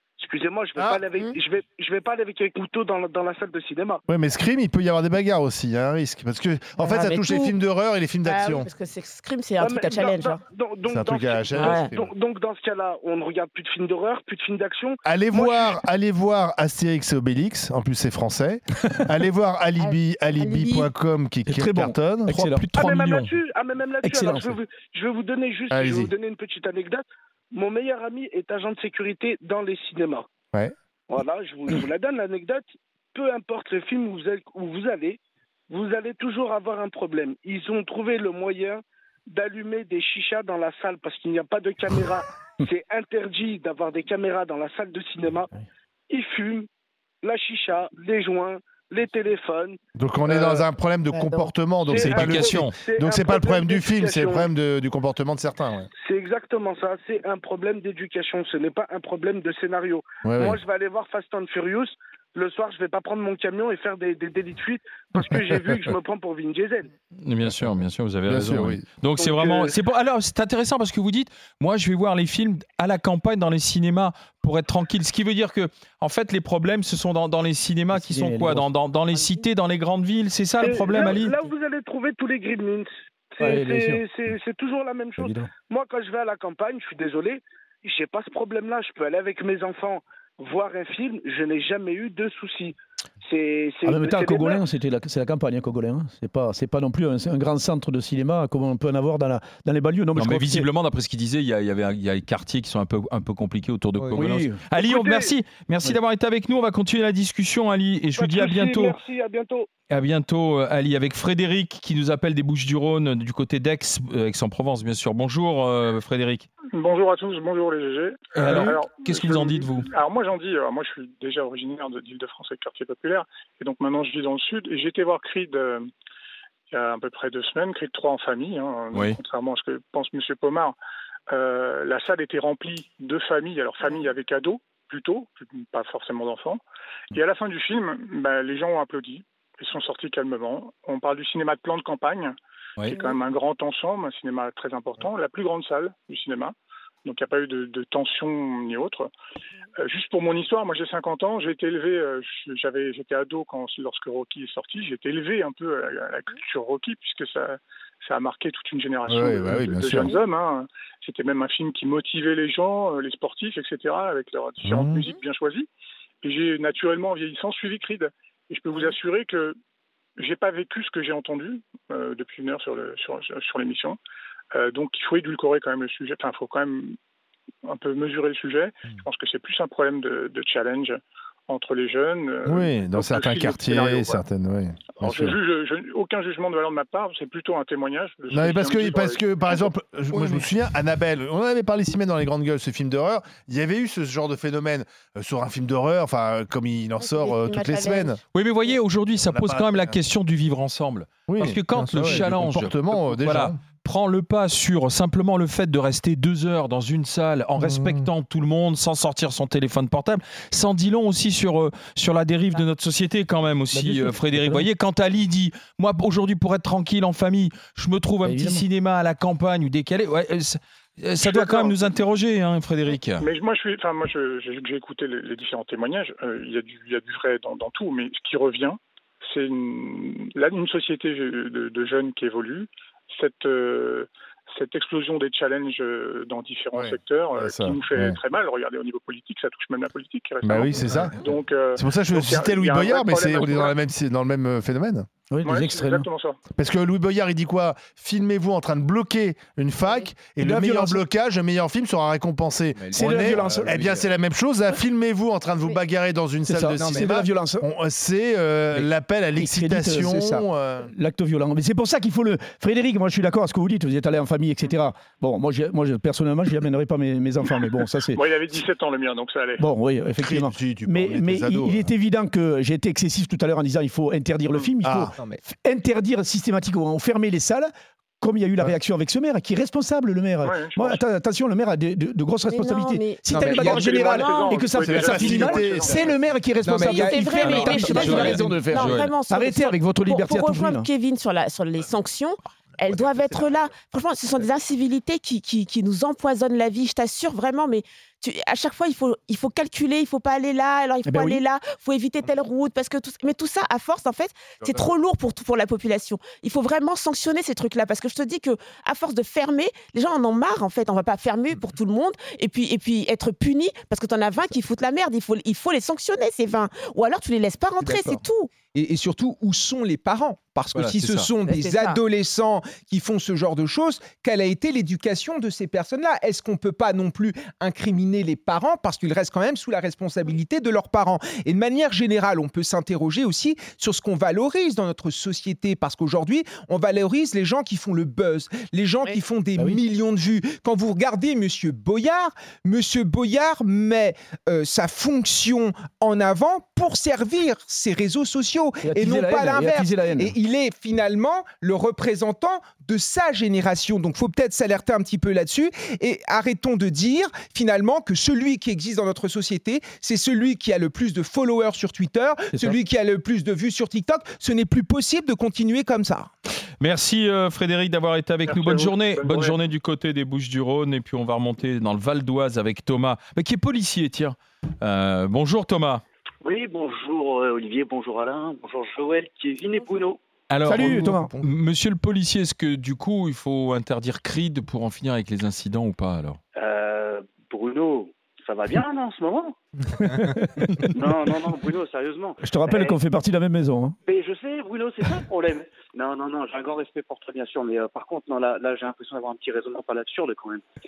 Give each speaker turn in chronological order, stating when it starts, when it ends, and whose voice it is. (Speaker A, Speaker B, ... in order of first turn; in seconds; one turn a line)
Speaker A: 0.2-4.0
Speaker B: 4.1-8.7
Speaker C: 6.8-7.5
Speaker C: 8.2-10.4
Speaker A: 9.6-15.8
Speaker B: 10.9-12.1
Speaker C: 11.5-11.9
Speaker B: 15.0-22.5
Speaker C: 19.8-20.9
Speaker D: 21.5-22.7
Speaker E: 22.5-23.4
Speaker A: 22.7-30.3
Speaker D: 24.0-24.6
Speaker B: 25.7-26.1
Speaker A: 31.1-35.2
Speaker A: 35.7-45.5
Speaker A: 46.1-46.7
Speaker A: 47.2-50.6
Speaker B: 50.0-55.9
Speaker C: 51.1-51.5
Speaker A: 51.9-54.5
Speaker E: 51.9-52.7
Speaker A: 56.0-66.9
Speaker B: 60.2-60.6
Speaker B: 65.2-66.0
Speaker E: 67.2-81.4
Speaker B: 67.5-68.8
Speaker A: 69.2-69.8
Speaker D: 77.9-78.7
Speaker A: 80.6-94.6
Speaker D: 83.4-84.0
Speaker D: 85.2-85.5
Speaker D: 93.8-100.7
Speaker E: 100.2-109.0
Speaker D: 104.1-104.6
Speaker A: 104.8-105.3
Speaker A: 108.2-109.7
Speaker E: 109.9-116.5
Speaker F: 116.7-125.9
Speaker E: 118.4-119.9
Speaker F: 126.7-130.8
Speaker E: 128.9-129.2
Speaker F: 131.3-136.6
Speaker F: 137.1-149.1
Speaker F: 149.8-165.7
Speaker B: 159.1-160.1
Speaker B: 164.6-165.1
Speaker F: 166.2-169.6
Speaker F: 170.2-174.0
Speaker F: 174.5-177.0
Speaker F: 177.7-184.2
Speaker B: 182.5-185.4
Speaker F: 185.0-189.7
Speaker B: 188.3-198.2
Speaker C: 190.1-190.4
Speaker C: 197.0-198.2
Speaker E: 198.3-223.3
Speaker B: 199.3-200.0
Speaker B: 201.3-203.6
Speaker G: 201.8-202.3
Speaker B: 207.6-208.1
Speaker D: 213.7-214.7
Speaker D: 218.2-218.6
Speaker F: 221.2-221.9
Speaker F: 223.2-243.8
Speaker B: 236.8-238.2
Speaker B: 240.4-241.2
Speaker B: 241.8-245.1
Speaker D: 245.3-246.1
Speaker F: 245.4-246.4
Speaker B: 246.6-260.9
Speaker D: 250.4-251.0
Speaker D: 252.9-253.8
Speaker G: 253.0-253.8
Speaker D: 256.5-257.7
Speaker D: 259.4-268.2
Speaker G: 260.1-260.4
Speaker F: 268.1-269.7
Speaker D: 269.6-290.9
Speaker B: 270.2-271.9
Speaker B: 274.8-275.1
Speaker F: 280.4-281.0
Speaker C: 282.5-284.6
Speaker G: 283.3-284.8
Speaker F: 283.9-286.1
Speaker B: 284.8-286.0
Speaker G: 285.6-286.1
Speaker G: 286.6-288.6
Speaker C: 286.8-318.5
Speaker E: 287.4-289.1
Speaker D: 301.1-301.4
Speaker G: 317.8-318.2
Speaker G: 318.7-366.3
Speaker E: 320.7-321.3
Speaker C: 321.4-322.0
Speaker D: 348.8-350.3
Speaker D: 362.5-362.8
Speaker E: 366.8-376.0
Speaker F: 368.5-369.6
Speaker H: 376.4-380.2
Speaker E: 380.5-386.4
Speaker D: 380.6-381.3
Speaker G: 380.7-381.5
Speaker H: 386.6-389.6
Speaker H: 390.9-393.0
Speaker D: 392.4-394.0
Speaker H: 394.1-400.6